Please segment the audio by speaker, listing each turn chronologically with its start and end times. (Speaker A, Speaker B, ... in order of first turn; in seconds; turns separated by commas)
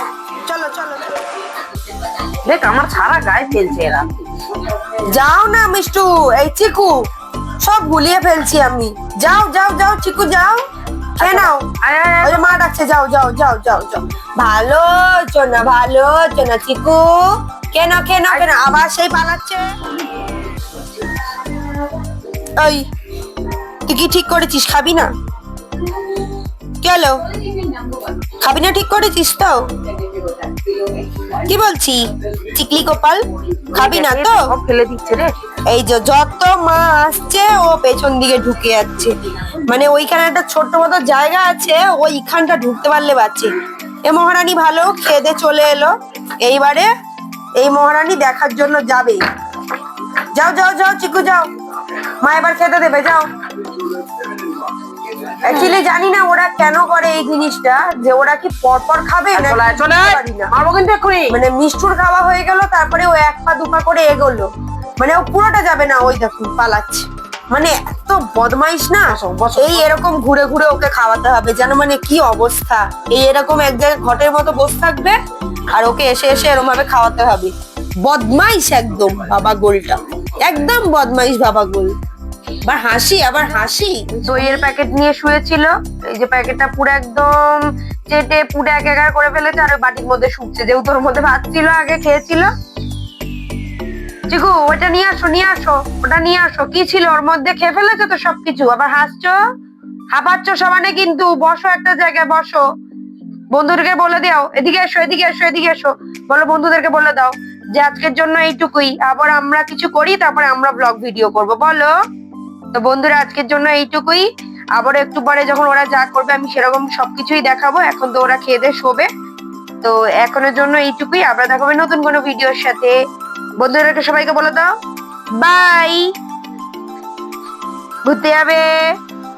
Speaker A: 0.4-1.2, Speaker B: 2.4-4.1, Speaker A: 5.1-7.0, Speaker A: 7.6-10.6, Speaker A: 11.2-11.7, Speaker B: 11.2-12.4, Speaker A: 12.2-19.6, Speaker A: 22.6-22.9, Speaker A: 23.9-25.1, Speaker A: 26.8-27.2, Speaker A: 28.4-29.6, Speaker A: 31.4-33.2, Speaker A: 33.7-34.4, Speaker B: 33.7-35.3, Speaker A: 35.7-39.1, Speaker A: 39.6-43.5, Speaker A: 44.0-46.9, Speaker A: 47.6-49.2, Speaker A: 50.3-51.5, Speaker A: 52.2-53.3, Speaker A: 55.4-60.5, Speaker B: 55.4-55.8, Speaker B: 59.3-61.4, Speaker A: 61.3-75.2, Speaker B: 69.1-69.9, Speaker A: 75.7-77.5, Speaker A: 78.0-81.9, Speaker A: 82.6-92.5, Speaker B: 84.2-84.6, Speaker A: 94.3-99.3, Speaker A: 100.1-102.6, Speaker A: 103.5-111.9, Speaker A: 112.7-119.1, Speaker A: 119.8-123.0, Speaker A: 123.6-124.7, Speaker A: 125.4-126.1, Speaker A: 128.0-128.8